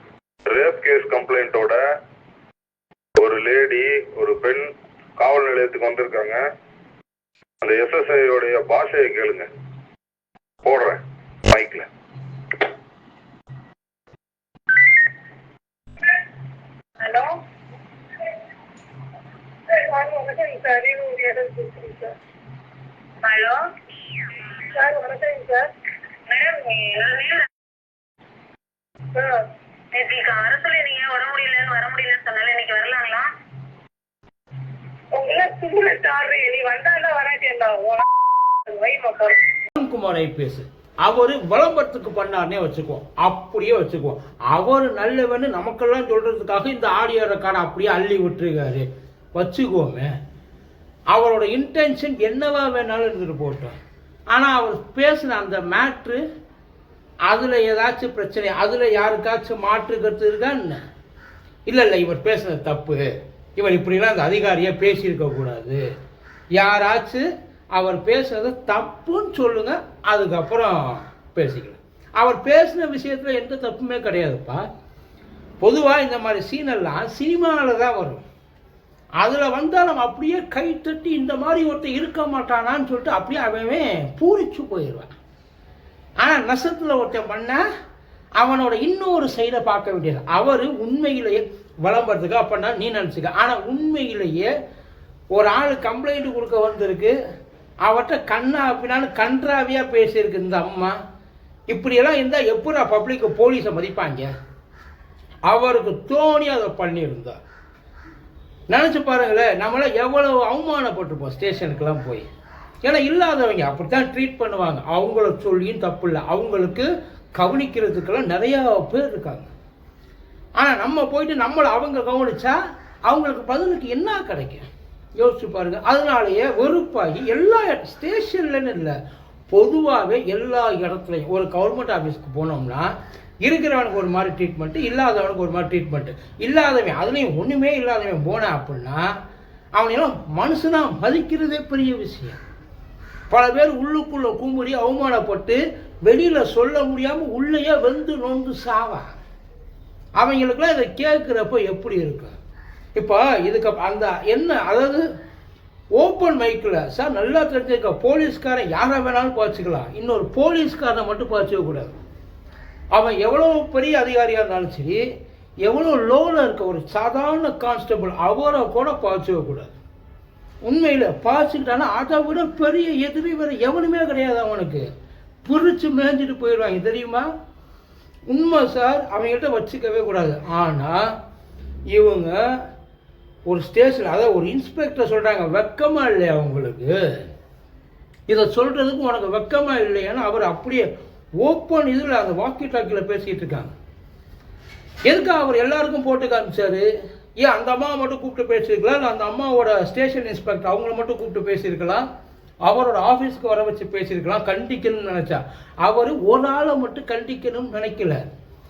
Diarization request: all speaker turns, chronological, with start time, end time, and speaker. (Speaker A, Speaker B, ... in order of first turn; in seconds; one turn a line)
Speaker A: 0.5-1.8
Speaker A: 3.2-4.6
Speaker A: 5.2-6.4
Speaker A: 7.6-9.4
Speaker A: 10.6-11.8
Speaker B: 17.0-17.4
Speaker B: 19.7-22.1
Speaker C: 23.2-23.6
Speaker B: 24.7-25.7
Speaker C: 26.3-27.4
Speaker B: 26.4-26.7
Speaker B: 29.1-29.4
Speaker C: 29.9-33.3
Speaker B: 35.1-38.1
Speaker B: 38.6-39.4
Speaker D: 39.7-50.1
Speaker D: 51.1-53.8
Speaker D: 54.3-56.2
Speaker D: 57.3-60.8
Speaker D: 61.6-65.8
Speaker D: 66.5-74.7
Speaker D: 75.6-78.2
Speaker D: 79.2-85.2
Speaker D: 86.2-87.6
Speaker D: 88.4-94.5
Speaker D: 95.3-97.2
Speaker D: 97.8-101.0
Speaker D: 101.7-104.3
Speaker D: 105.5-107.4
Speaker D: 108.7-112.2
Speaker D: 112.8-119.5
Speaker D: 120.6-128.9
Speaker D: 129.5-139.1
Speaker D: 139.7-142.4
Speaker D: 143.3-149.1
Speaker D: 150.2-152.3
Speaker D: 152.9-155.0
Speaker D: 155.9-162.0
Speaker D: 162.9-165.0
Speaker D: 165.6-169.7
Speaker D: 170.6-174.8
Speaker D: 175.4-177.3
Speaker D: 178.3-181.1
Speaker D: 181.9-182.6
Speaker D: 183.4-187.2
Speaker D: 188.3-190.9
Speaker D: 191.4-193.7
Speaker D: 195.1-196.9
Speaker D: 197.4-202.1
Speaker D: 202.6-208.3